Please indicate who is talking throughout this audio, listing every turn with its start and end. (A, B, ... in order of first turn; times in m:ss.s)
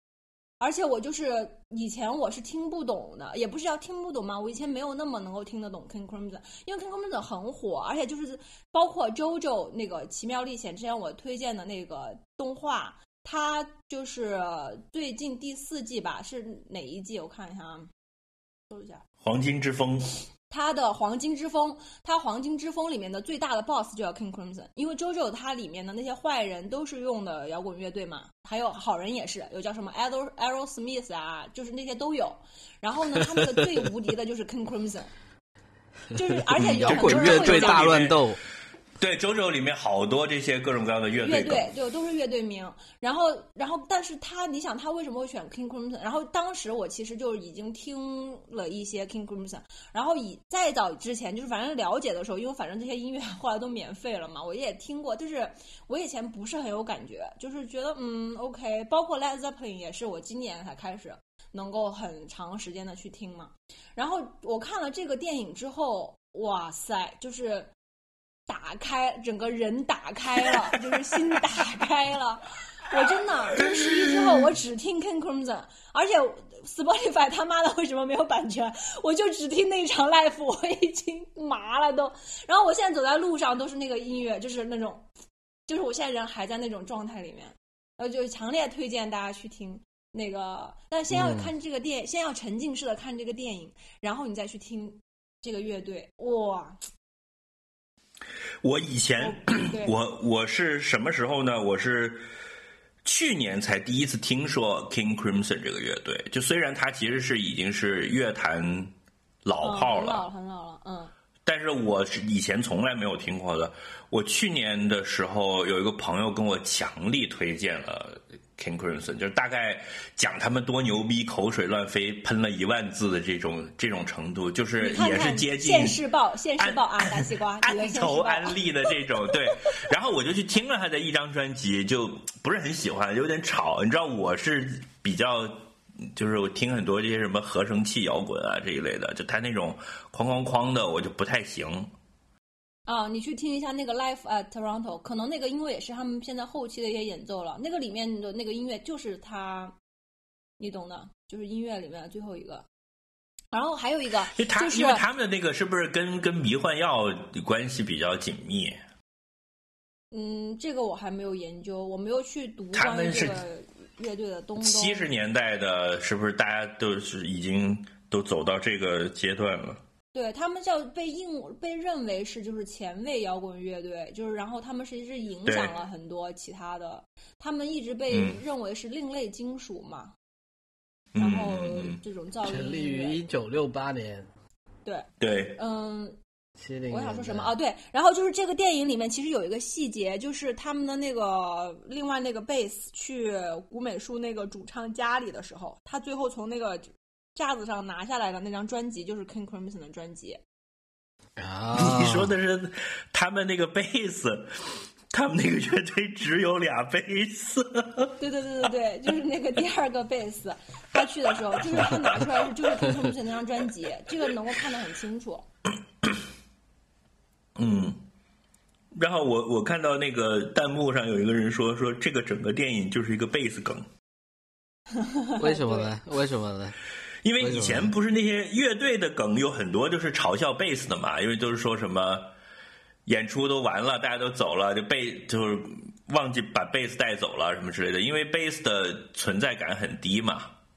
0:00.6-0:17.9 A
0:18.7-0:19.0 A
0:19.2-0:20.2 B
0:20.5-0:35.1 A
0:36.2-0:38.0 A
0:36.5-0:38.4 C
0:36.6-0:38.2 B
0:39.0-0:41.7 B
0:41.2-1:07.7 A
1:08.5-1:25.1 A
1:25.7-1:36.8 A
1:31.1-1:31.5 C
1:38.6-1:42.2 B
1:39.2-1:40.0 A
1:43.0-1:48.9 B
1:49.4-1:50.2 B
1:49.6-1:51.1 A
1:51.4-2:06.0 B
2:04.8-2:08.6 A
2:06.6-2:21.9 B
2:22.9-2:29.8 A
2:30.6-2:32.7 A
2:33.5-2:35.0 A
2:34.3-2:38.8 B
2:40.1-2:45.1 A
2:42.7-2:43.4 B
2:44.6-2:49.8 B
2:50.1-3:00.1 A
2:55.5-2:55.7 B
2:58.1-2:58.4 B
3:01.1-3:02.0 B
3:01.2-3:03.2 A
3:02.4-3:04.3 C
3:04.8-3:06.2 A
3:05.2-3:05.6 B
3:06.6-3:07.6 C
3:06.9-3:20.4 A
3:21.4-3:22.4 C
3:21.8-3:24.5 B
3:25.1-3:28.1 B
3:28.2-3:35.5 A
3:31.6-3:32.2 B
3:37.6-3:38.0 B
3:38.9-3:43.9 B
3:45.0-3:45.9 A
3:45.4-3:46.8 C
3:47.2-3:52.3 B
3:47.4-3:47.9 C
3:53.1-4:00.5 B